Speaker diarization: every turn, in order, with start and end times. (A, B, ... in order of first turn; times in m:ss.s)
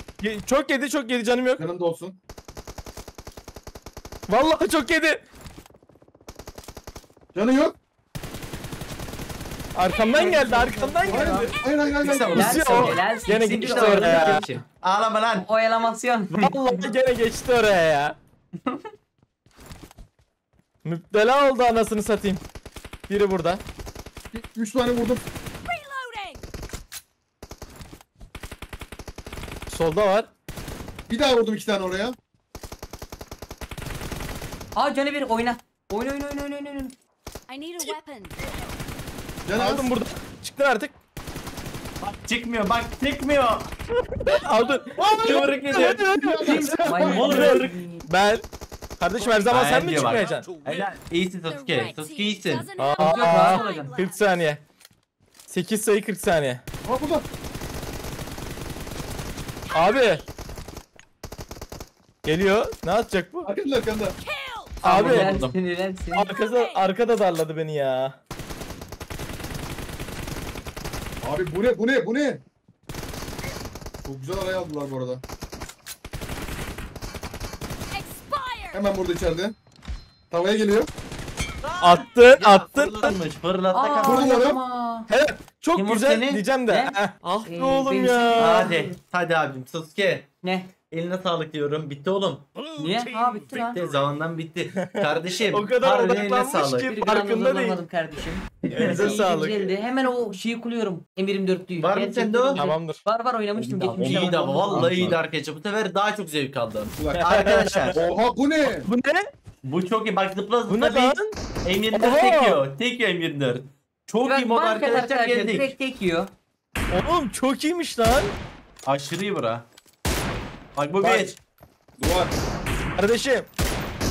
0:00.2-0:01.6 A
0:01.6-0:02.1 B
0:04.3-0:05.2 A
0:07.3-0:07.7 B
0:09.8-0:11.5 A
0:10.0-0:11.5 C
0:11.1-0:12.7 B
0:12.0-0:15.5 D
0:12.2-0:14.6 C
0:12.3-0:14.4 A
0:15.3-0:16.9 C
0:16.4-0:18.2 A
0:18.6-0:18.9 D
0:20.8-0:22.4 A
0:23.1-0:23.6 A
0:24.3-0:25.2 B
0:25.6-0:26.4 E
0:29.7-0:30.3 A
0:31.1-0:32.2 B
0:34.8-0:36.9 C
0:37.5-0:38.4 E
0:39.4-0:39.9 B
0:39.5-0:40.9 A
0:42.0-0:43.7 D
0:44.1-0:48.4 A
0:45.0-0:47.6 B
0:45.0-0:47.8 D
0:46.8-0:48.0 C
0:49.0-0:50.5 A
0:49.4-0:52.6 D
0:51.5-0:54.2 E
0:52.8-0:54.6 A
0:52.9-0:53.9 C
0:55.5-0:56.6 A
0:56.8-0:57.2 B
0:59.7-1:00.2 E
0:59.7-1:00.2 A
1:02.2-1:03.5 A
1:03.4-1:04.1 B
1:04.2-1:04.8 E
1:04.8-1:05.6 D
1:04.8-1:05.3 A
1:04.9-1:06.3 C
1:06.1-1:08.2 A
1:06.3-1:06.8 E
1:11.2-1:12.4 B
1:14.0-1:15.2 B
1:17.9-1:18.8 E
1:18.7-1:19.6 B
1:20.3-1:20.9 B
1:21.6-1:24.4 D
1:21.8-1:23.1 A
1:23.7-1:25.1 C
1:24.0-1:24.6 B
1:25.1-1:28.7 A
1:25.7-1:26.4 D
1:26.7-1:28.9 C
1:28.4-1:30.3 D
1:30.4-1:30.7 C
1:30.9-1:32.5 D
1:32.8-1:33.8 C
1:33.5-1:36.9 D
1:34.8-1:37.8 A
1:36.8-1:44.9 C
1:38.7-1:39.1 D
1:38.7-1:39.7 A
1:41.8-1:42.6 D
1:42.5-1:43.0 A
1:43.6-1:45.2 B
1:43.6-1:48.0 D
1:47.0-1:47.2 B
1:47.1-1:48.0 A
1:47.9-1:48.9 B
1:48.6-1:49.3 A
1:49.6-1:55.7 D
1:50.7-1:51.3 A
1:51.9-1:52.6 A
1:54.2-1:56.3 C
1:56.9-1:58.3 A
1:58.8-1:59.6 D
2:00.8-2:01.4 D
2:01.0-2:01.3 A
2:02.0-2:02.3 B
2:03.0-2:03.5 A